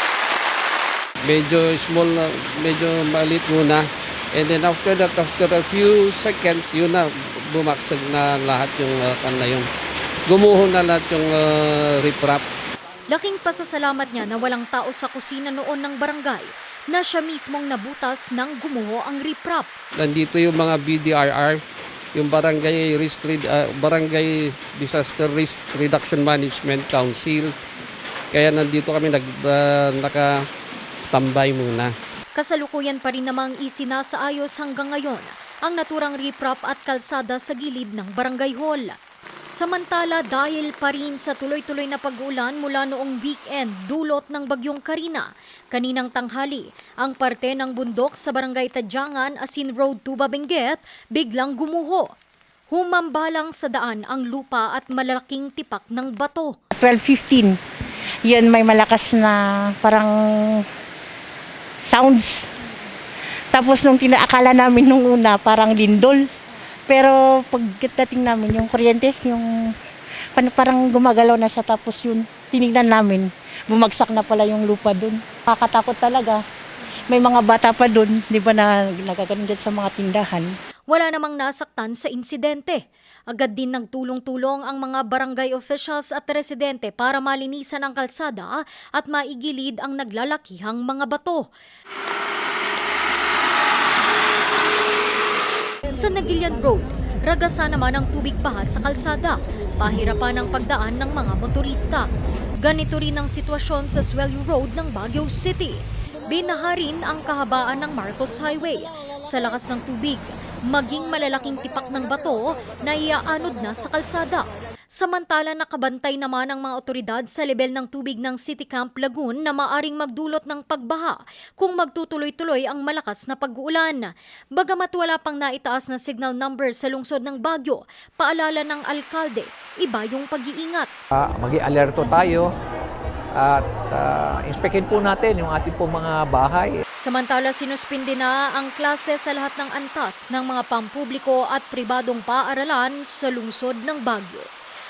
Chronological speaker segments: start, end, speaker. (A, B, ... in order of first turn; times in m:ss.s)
0:01.2-0:09.7 A
0:10.3-0:12.4 A
0:13.1-0:19.7 B
0:20.0-0:21.6 A
0:22.1-0:27.6 A
0:28.3-0:30.3 A
0:31.1-0:31.9 A
0:32.3-0:39.0 B
0:39.5-0:52.1 B
0:52.7-0:56.6 B
0:56.8-0:57.5 C
0:58.3-1:00.6 C
1:01.9-1:02.4 C
1:03.5-1:06.2 C
1:06.9-1:09.7 C
1:10.3-1:16.4 C
1:17.1-1:20.5 C
1:20.9-1:31.5 B
1:35.8-1:42.1 B
1:42.6-2:10.9 B
2:11.2-2:12.5 D
2:13.4-2:16.8 D
2:17.0-2:24.5 B